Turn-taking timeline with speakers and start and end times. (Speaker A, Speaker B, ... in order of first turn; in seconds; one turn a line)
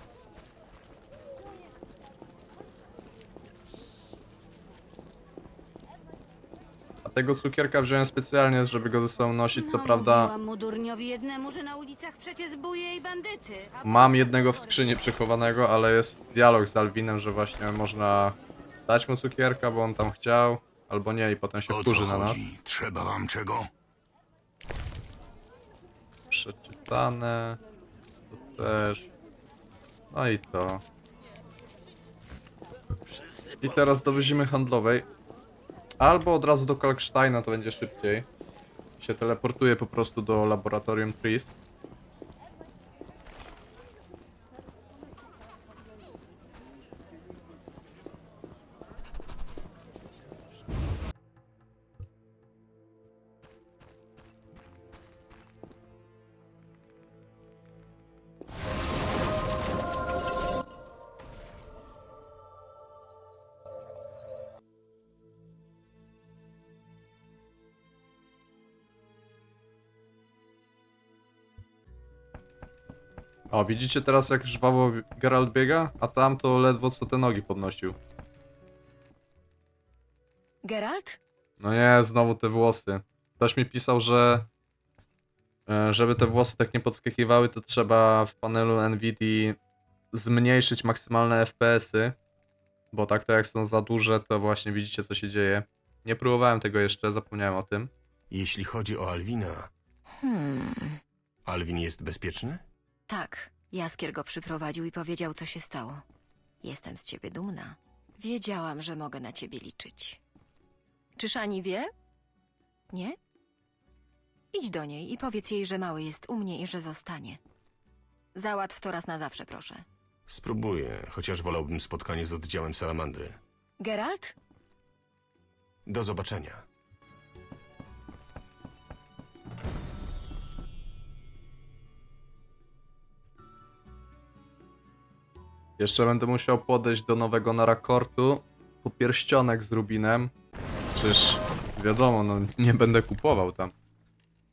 Speaker A: 7.0-10.3
Speaker B: 9.5-14.8
Speaker A: 13.8-18.4
Speaker A: 18.9-22.4
Speaker C: 21.7-23.7
Speaker A: 26.3-27.6
Speaker A: 28.3-29.1
Speaker A: 30.1-30.8
Speaker A: 33.6-35.1
Speaker A: 36.0-38.3
Speaker A: 39.0-41.5
Speaker A: 73.5-78.0
Speaker D: 80.6-81.2
Speaker A: 81.6-84.5
Speaker A: 85.7-89.6
Speaker A: 90.1-92.2
Speaker A: 92.9-97.9
Speaker E: 98.3-99.7
Speaker D: 100.2-101.0
Speaker E: 101.5-102.6
Speaker D: 103.1-106.0
Speaker D: 106.6-110.2
Speaker D: 111.2-111.9
Speaker D: 112.9-113.2
Speaker D: 114.5-117.4
Speaker D: 118.3-119.8
Speaker E: 120.3-123.4
Speaker D: 123.8-124.3
Speaker E: 125.9-126.7
Speaker A: 135.8-140.3
Speaker A: 140.9-143.7